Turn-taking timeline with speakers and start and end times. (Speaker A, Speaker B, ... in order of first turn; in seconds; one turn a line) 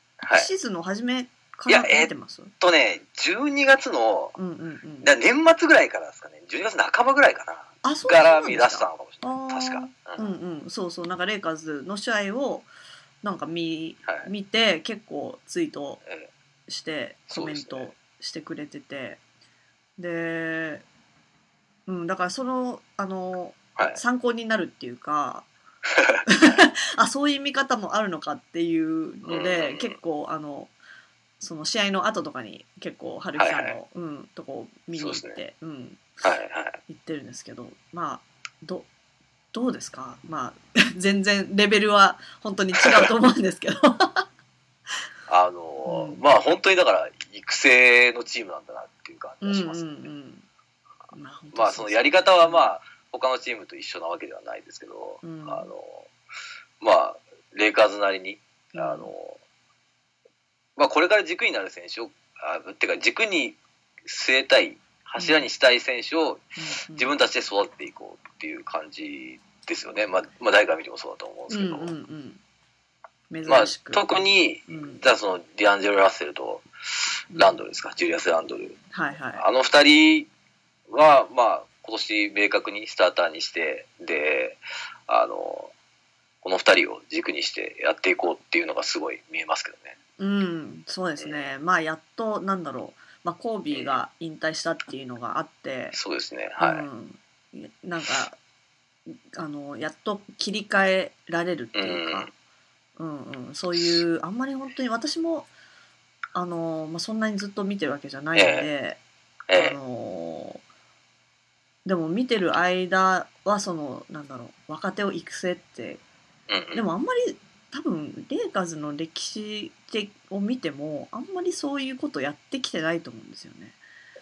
Speaker A: 0.2-0.5
Speaker B: 0.3-2.5
Speaker A: 1.7-4.3
Speaker B: 4.3-5.1
Speaker A: 5.0-10.3
Speaker B: 7.8-12.7
Speaker B: 13.2-16.0
Speaker A: 16.0-16.3
Speaker B: 16.7-19.2
Speaker A: 17.3-17.9
Speaker B: 20.0-20.8
Speaker B: 21.9-25.5
Speaker A: 25.9-26.5
Speaker B: 26.2-30.7
Speaker A: 29.2-30.0
Speaker B: 31.4-36.1
Speaker A: 33.4-33.8
Speaker A: 34.9-35.4
Speaker A: 36.2-36.8
Speaker B: 36.9-38.9
Speaker B: 39.5-44.2
Speaker A: 45.3-50.1
Speaker B: 45.9-46.2
Speaker B: 49.4-50.5
Speaker B: 51.1-52.7
Speaker A: 51.5-56.1
Speaker B: 55.2-55.7
Speaker A: 56.8-59.4
Speaker B: 58.7-59.1
Speaker A: 60.8-71.9
Speaker B: 65.2-65.5
Speaker B: 66.6-67.1
Speaker B: 71.5-72.4
Speaker B: 73.3-74.0
Speaker A: 73.5-76.7
Speaker B: 74.7-75.0
Speaker B: 77.3-77.6
Speaker A: 77.3-78.8
Speaker B: 78.9-79.4
Speaker A: 79.3-80.3
Speaker A: 80.9-85.7
Speaker A: 86.4-90.0
Speaker B: 90.2-96.0
Speaker A: 91.2-91.5
Speaker A: 93.7-94.0
Speaker A: 95.9-96.9
Speaker B: 96.6-98.4
Speaker B: 99.3-102.3
Speaker A: 101.7-102.3
Speaker B: 103.0-105.5
Speaker B: 106.3-109.0
Speaker A: 108.3-108.7
Speaker A: 109.5-109.8
Speaker B: 109.5-110.6
Speaker B: 111.8-116.0
Speaker A: 116.5-116.8
Speaker B: 116.7-123.8